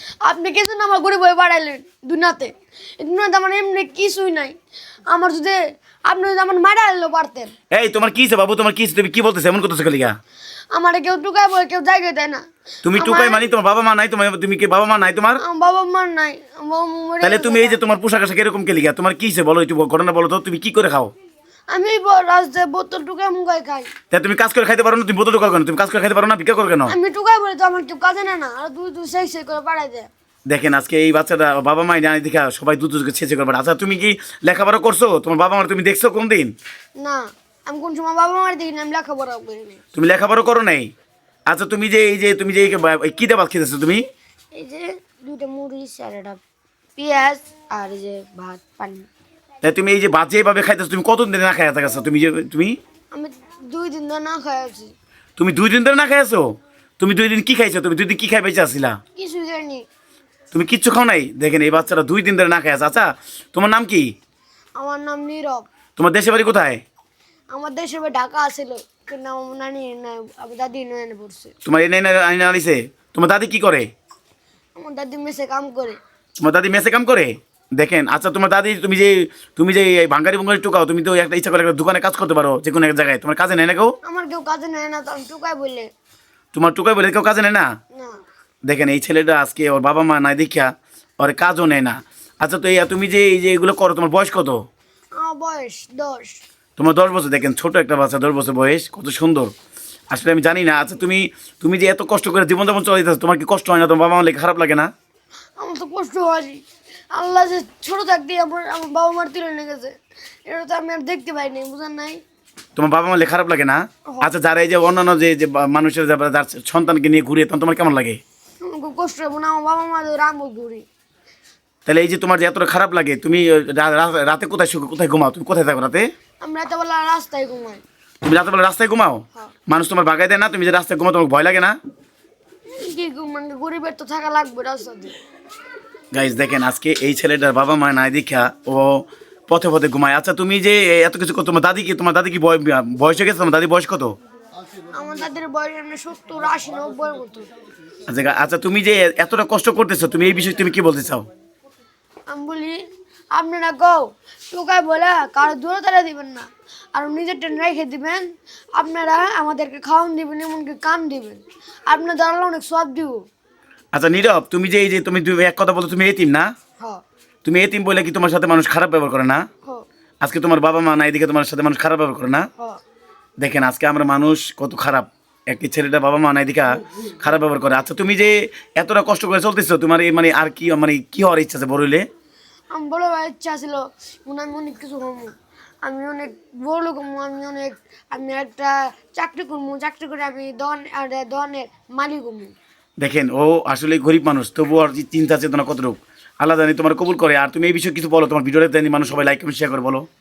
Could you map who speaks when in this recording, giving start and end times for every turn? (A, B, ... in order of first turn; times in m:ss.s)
0:00.2-0:07.5 A
0:07.7-0:10.2 B
0:10.7-0:13.4 A
0:12.8-0:15.4 B
0:15.4-0:17.8 A
0:17.2-0:21.1 B
0:21.7-0:23.9 A
0:24.1-0:27.0 B
0:26.9-0:30.1 A
0:30.5-0:36.5 B
0:37.0-0:39.8 A
0:40.0-0:40.9 B
0:41.5-0:44.0 B
0:44.5-0:46.4 A
0:47.0-0:49.1 A
0:49.6-0:52.8 B
0:53.1-0:55.0 A
0:55.4-0:59.0 B
0:59.2-0:59.9 A
1:00.5-1:04.1 B
1:04.8-1:05.7 A
1:06.0-1:06.8 B
1:07.5-1:11.5 A
1:11.6-1:13.9 B
1:14.8-1:16.0 A
1:16.4-1:24.0 B
1:24.0-1:25.9 A
1:26.5-1:27.7 B
1:27.9-1:28.2 A
1:28.7-1:34.6 B
1:35.1-1:36.4 A
1:36.8-1:39.5 B
1:40.1-1:44.9 B
1:45.6-1:52.2 A
1:52.8-1:58.2 B
1:58.6-2:00.9 A
2:01.9-2:06.1 B
2:06.4-2:07.8 A
2:08.2-2:11.8 B
2:12.7-2:15.1 A
2:16.1-2:24.2 B
2:24.9-2:27.5 A
2:28.1-2:31.3 B
2:32.3-2:43.3 A
2:43.9-2:46.5 B
2:47.4-2:49.4 B
2:50.2-2:52.5 B
2:53.4-3:02.1 B
3:02.7-3:12.5 A
3:13.0-3:20.1 B